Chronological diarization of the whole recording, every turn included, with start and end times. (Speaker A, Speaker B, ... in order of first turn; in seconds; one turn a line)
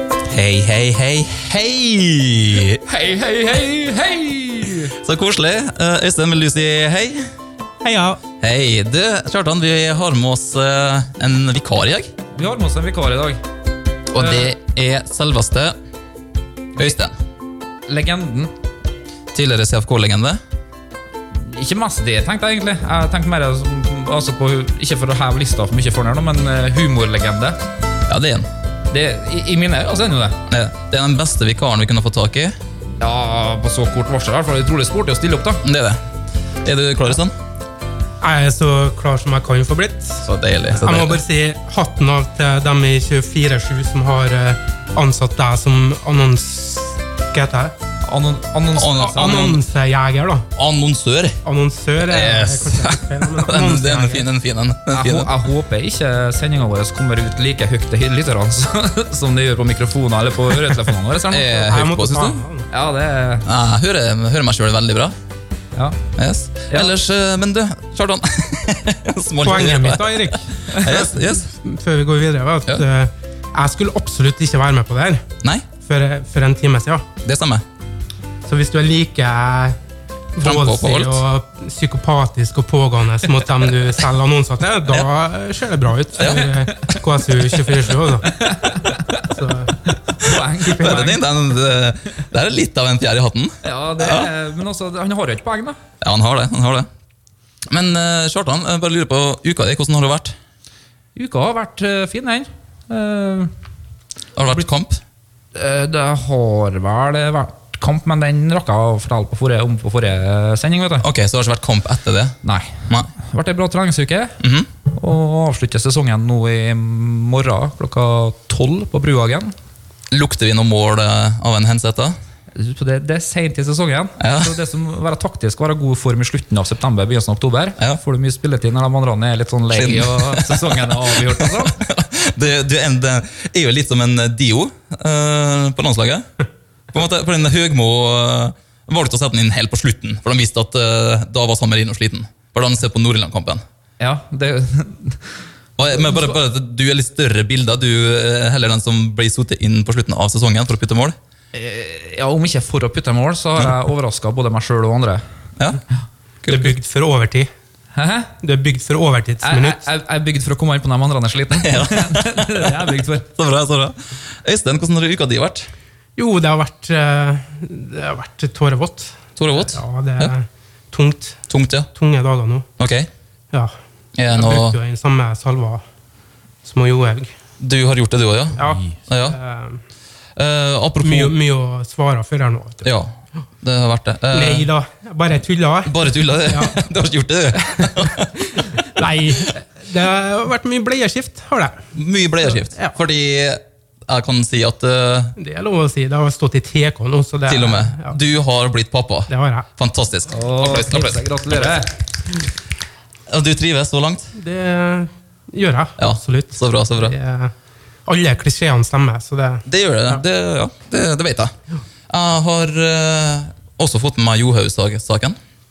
Speaker A: 0.2-2.8
Speaker B: 2.9-5.0
Speaker A: 5.0-7.3
Speaker C: 7.8-8.2
Speaker A: 8.4-12.1
Speaker B: 12.3-13.4
Speaker A: 14.1-15.8
Speaker B: 14.2-14.5
Speaker A: 16.8-17.1
Speaker B: 17.9-18.5
Speaker A: 19.3-20.4
Speaker B: 21.3-27.6
Speaker A: 28.1-28.5
Speaker B: 28.9-30.4
Speaker A: 30.5-32.5
Speaker B: 33.0-35.6
Speaker A: 35.6-36.0
Speaker A: 36.6-37.3
Speaker C: 38.2-47.8
Speaker A: 40.2-41.2
Speaker B: 48.0-49.5
Speaker A: 48.8-49.6
Speaker C: 49.0-50.5
Speaker A: 50.6-51.4
Speaker C: 51.5-54.3
Speaker A: 52.0-55.3
Speaker B: 54.9-61.7
Speaker A: 61.3-62.4
Speaker C: 61.6-62.7
Speaker B: 62.7-63.5
Speaker A: 63.5-65.1
Speaker A: 66.2-71.5
Speaker C: 69.4-75.3
Speaker C: 75.8-77.0
Speaker A: 77.2-77.6
Speaker C: 78.5-79.8
Speaker C: 80.3-88.3
Speaker A: 80.4-81.2
Speaker A: 86.2-86.5
Speaker B: 88.3-89.3
Speaker C: 89.3-89.8
Speaker B: 89.9-91.2
Speaker C: 90.6-91.2
Speaker A: 90.7-94.3
Speaker B: 93.6-95.8
Speaker A: 96.0-96.9
Speaker A: 97.7-100.3
Speaker B: 101.2-103.5
Speaker A: 104.4-105.0
Speaker B: 105.5-111.1
Speaker A: 111.0-113.1
Speaker B: 112.4-114.4
Speaker A: 114.4-114.7
Speaker B: 114.9-119.5
Speaker A: 120.1-122.2
Speaker B: 122.5-131.8
Speaker A: 124.2-124.6
Speaker A: 129.7-136.3
Speaker A: 136.9-143.6
Speaker B: 144.0-145.2
Speaker A: 145.8-151.2
Speaker B: 151.5-155.2
Speaker A: 156.4-156.7
Speaker C: 156.5-157.5
Speaker B: 157.9-158.3
Speaker C: 158.4-159.8
Speaker B: 159.4-163.3
Speaker A: 161.6-162.7
Speaker A: 163.3-165.7
Speaker C: 166.2-172.7
Speaker A: 169.4-170.3
Speaker A: 171.5-171.9
Speaker A: 172.8-173.1
Speaker A: 174.2-174.8
Speaker C: 174.3-175.8
Speaker C: 176.6-177.3
Speaker A: 177.6-179.4
Speaker C: 178.6-179.8
Speaker A: 180.4-181.3
Speaker C: 181.0-182.9
Speaker A: 182.8-184.7
Speaker C: 184.3-185.9
Speaker A: 185.8-188.3
Speaker C: 186.4-186.8
Speaker C: 187.8-191.8
Speaker A: 191.9-195.4
Speaker C: 192.6-192.9
Speaker C: 195.4-198.2
Speaker A: 197.5-201.2
Speaker C: 199.3-199.7
Speaker B: 200.3-201.9
Speaker A: 203.3-204.3
Speaker C: 204.4-207.5
Speaker A: 206.0-207.1
Speaker C: 208.1-209.6
Speaker A: 209.7-211.5
Speaker A: 212.1-215.4